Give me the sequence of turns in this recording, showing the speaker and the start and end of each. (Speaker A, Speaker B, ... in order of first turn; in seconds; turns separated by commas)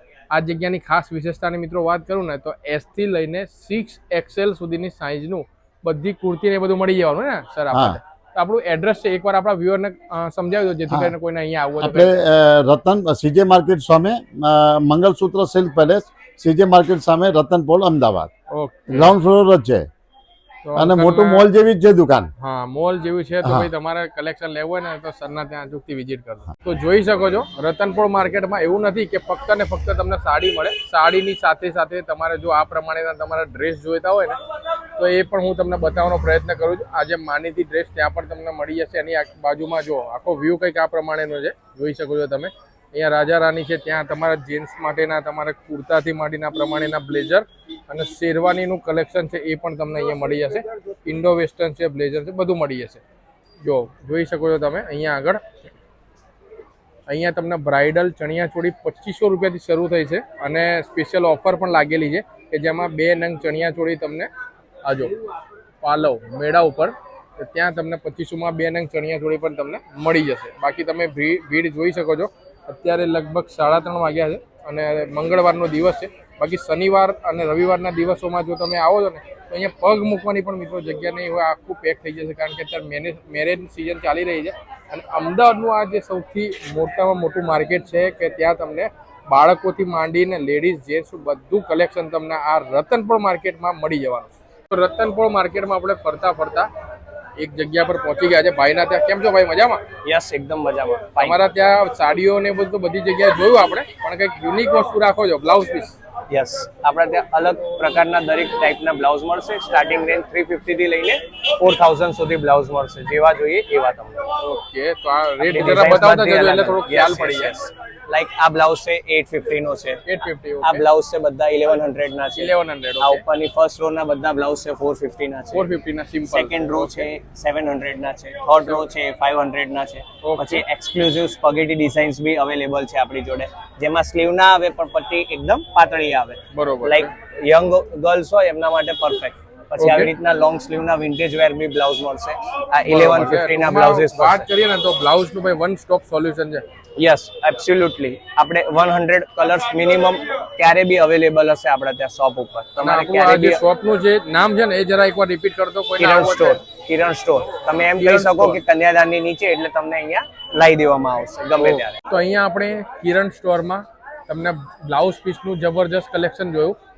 Speaker A: 0.3-12.2, Speaker B: 7.7-8.0, Speaker B: 11.8-18.3, Speaker A: 18.5-19.1, Speaker B: 18.9-19.9, Speaker A: 20.6-21.5, Speaker B: 20.8-22.3, Speaker A: 22.4-34.4, Speaker B: 23.4-23.7, Speaker A: 35.0-53.0, Speaker A: 53.6-55.4, Speaker A: 57.1-64.3, Speaker A: 64.8-65.1, Speaker A: 65.8-96.7, Speaker A: 97.4-99.8, Speaker C: 100.0-101.4, Speaker A: 101.2-106.0, Speaker C: 106.3-114.2, Speaker A: 114.4-117.5, Speaker C: 115.4-120.0, Speaker A: 120.1-120.8, Speaker C: 120.6-125.7, Speaker A: 122.3-123.2, Speaker A: 125.5-127.1, Speaker C: 126.3-144.5, Speaker A: 130.2-130.6, Speaker A: 136.5-137.1, Speaker A: 139.8-140.1, Speaker A: 142.8-146.6, Speaker C: 147.0-153.6, Speaker A: 152.8-156.6, Speaker C: 156.0-161.9, Speaker A: 157.9-158.6, Speaker A: 161.6-166.8